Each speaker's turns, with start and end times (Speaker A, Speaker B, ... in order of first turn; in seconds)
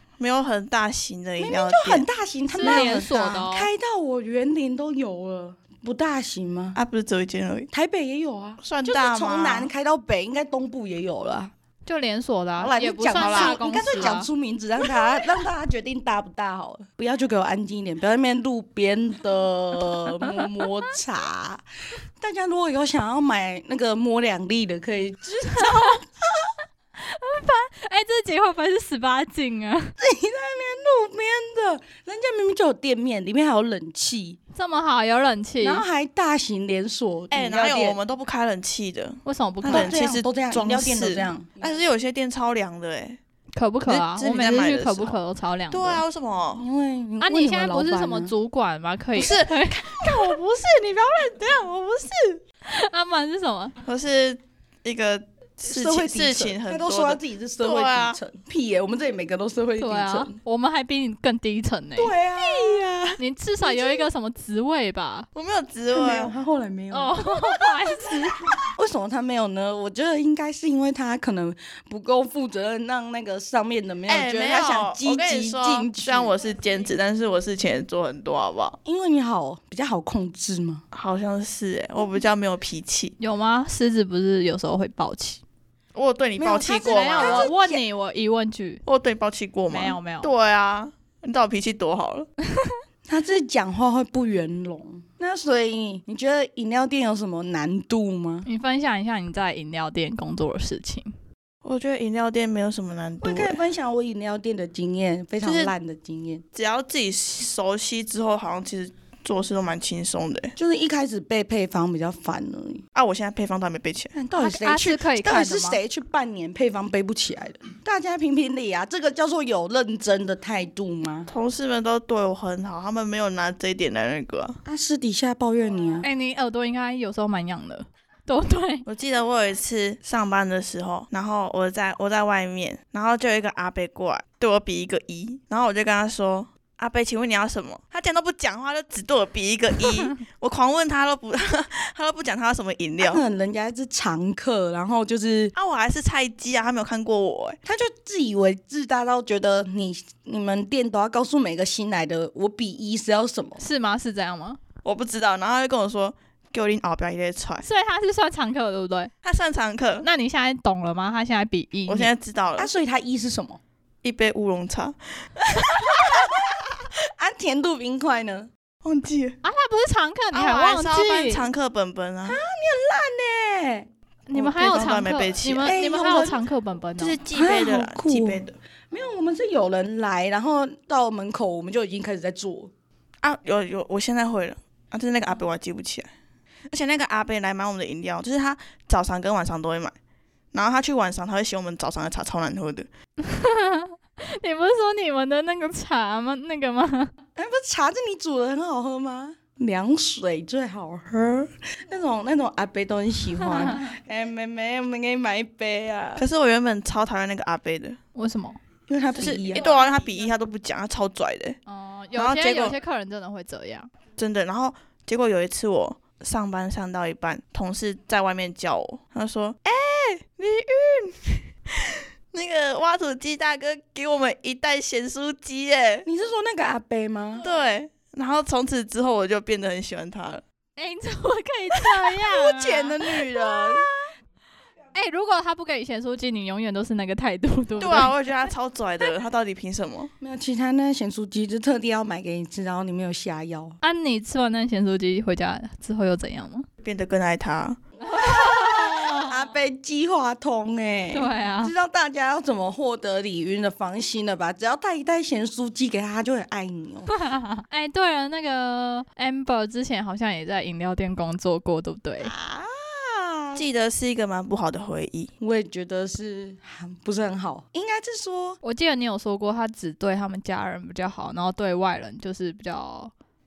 Speaker A: 0.2-2.0, 6.8-7.7, 8.6-9.7, 13.2-14.2, 37.3-43.2, 43.9-45.1, 45.7-46.6, 49.1-52.4, 53.8-58.2, 62.5-63.1, 65.3-66.3, 74.1-78.8, 80.9-83.1, 85.9-87.5, 88.8-92.3, 101.6-103.6, 105.4-105.7, 106.5-110.5, 112.9-114.1, 121.3-124.6, 128.8-143.2, 145.6-147.6, 154.8-157.7, 159.2-160.1, 161.9-162.7, 164.0-166.6, 168.8-169.4, 170.3-172.4, 174.3-175.8, 177.0-178.6, 183.2-186.1, 186.7-189.9, 190.5-192.9, 206.2-208.0, 209.1-211.6, 212.2-212.7, 214.2-226.1, 227.4-230.4, 237.8-240.1, 246.8-247.8, 263.6-265.3
Speaker B: 1.4-6.8, 7.7-11.5, 12.6-21.6, 22.2-26.5, 30.0-34.4, 35.6-38.0, 39.7-41.6, 46.5-48.3, 55.6-60.4, 62.0-63.0, 65.9-76.3, 78.8-80.8, 86.4-87.8, 93.1-98.5, 103.2-106.4, 110.6-112.8, 114.1-121.3, 124.7-126.1, 143.0-145.5, 147.6-153.6, 162.6-163.6, 165.9-166.6, 167.2-168.5, 172.2-173.9, 175.7-176.4, 177.3-182.7, 197.3-206.2, 208.9-209.7, 226.0-227.4, 232.3-233.9, 240.2-243.8, 248.1-257.1, 262.2-263.6, 265.4-268.6
Speaker C: 2.5-3.7, 11.8-14.3, 25.5-26.0, 27.0-29.9, 34.5-35.8, 39.2-39.9, 43.5-46.0, 47.2-50.2, 52.6-53.7, 59.8-62.1, 63.2-65.3, 66.9-68.5, 83.2-85.4, 86.7-88.8, 89.7-90.3, 98.4-101.1, 114.4-115.8, 126.0-128.8, 153.6-154.6, 157.6-159.1, 160.0-162.1, 169.4-171.4, 174.3-177.2, 193.2-197.1, 208.1-208.6, 211.7-213.9, 230.8-233.6, 234.9-238.1, 243.8-246.7, 248.1-249.3, 251.1-251.7, 257.1-262.3, 268.6-273.1